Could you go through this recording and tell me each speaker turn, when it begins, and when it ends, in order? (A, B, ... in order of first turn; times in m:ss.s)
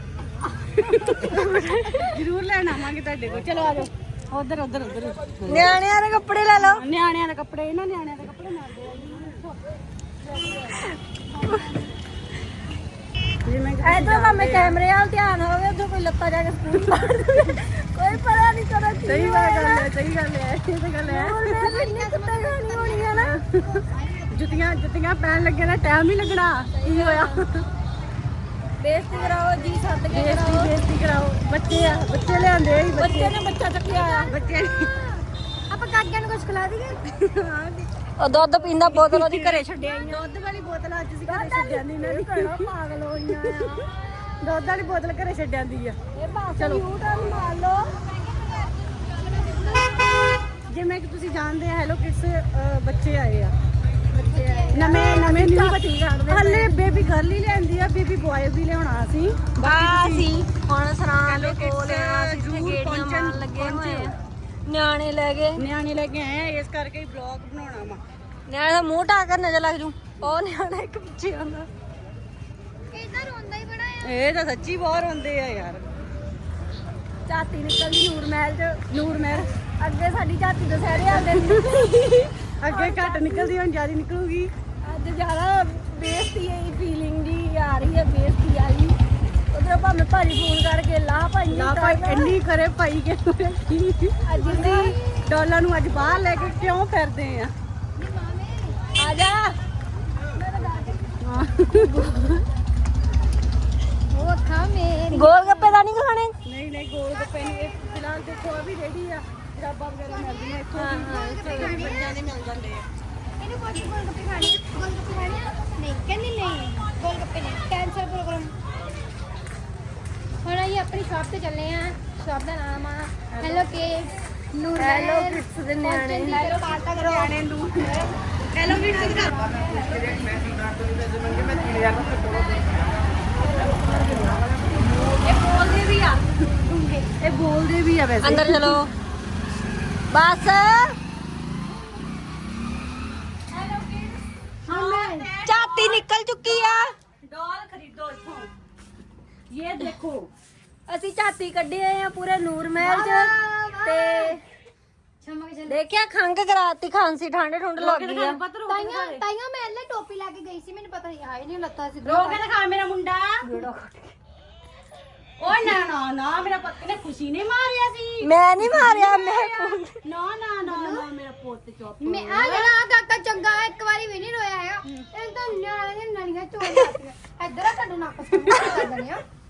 0:00.6-0:01.4 A
0:01.1-0:02.2 B
0:02.0-0:05.8 A
0:05.5-0:06.8 B
0:06.6-0:09.6 A
0:13.4-0:14.8 A
0:13.8-0:19.9 B
0:19.1-0:21.7 A
0:21.0-0:23.4 B
0:21.6-0:24.7 C
0:24.3-0:27.6 A
0:26.7-0:27.4 B
0:28.8-0:30.8 B
0:30.1-0:33.4 A
0:31.6-0:32.8 C
0:33.0-0:34.3 B
0:33.9-0:35.2 C
0:34.3-0:34.9 A
0:35.7-0:37.0 C
0:37.2-0:37.9 A
0:38.2-0:40.2 B
0:38.6-0:42.7 A
0:41.3-0:44.0 B
0:43.3-0:43.9 A
0:44.4-0:46.0 A
0:46.2-0:47.8 B
0:46.6-0:46.8 A
0:47.6-0:50.4 C
0:50.6-0:53.5 A
0:54.1-0:57.1 B
0:54.3-0:55.1 C
0:54.7-1:00.3 A
0:59.6-1:04.2 B
1:01.3-1:04.1 A
1:04.7-1:05.6 B
1:05.6-1:08.0 A
1:08.5-1:11.7 B
1:12.9-1:14.1 C
1:14.0-1:15.8 A
1:17.3-1:18.9 B
1:18.9-1:19.5 A
1:19.4-1:22.3 B
1:21.0-1:21.9 A
1:22.6-1:24.5 A
1:22.7-1:23.5 C
1:24.8-1:29.0 B
1:29.5-1:32.4 B
1:31.5-1:37.5 A
1:34.2-1:35.0 B
1:34.4-1:35.3 C
1:35.9-1:36.7 C
1:38.0-1:38.8 C
1:39.0-1:39.5 B
1:40.5-1:41.0 C
1:41.2-1:42.4 A
1:44.1-1:45.8 C
1:45.1-1:46.3 B
1:46.4-1:52.8 A
1:50.1-1:52.0 C
1:50.7-1:51.9 B
1:53.4-1:58.5 C
2:00.4-2:07.4 C
2:03.3-2:03.7 A
2:04.8-2:06.5 B
2:06.3-2:10.4 A
2:08.6-2:10.5 C
2:11.0-2:14.1 C
2:13.4-2:16.4 A
2:16.6-2:17.1 C
2:17.2-2:18.8 A
2:18.2-2:18.9 B
2:20.1-2:21.0 B
2:23.5-2:28.5 A
2:24.7-2:25.3 C
2:25.4-2:26.9 B
2:29.5-2:30.3 A
2:30.9-2:33.3 B
2:32.8-2:34.4 C
2:33.8-2:34.4 B
2:35.2-2:35.8 C
2:35.7-2:38.4 B
2:37.8-2:39.2 A
2:38.7-2:42.4 C
2:42.0-2:43.4 A
2:43.4-2:44.2 B
2:45.4-2:52.7 A
2:48.2-2:49.9 B
2:50.6-2:51.1 C
2:52.0-2:59.2 C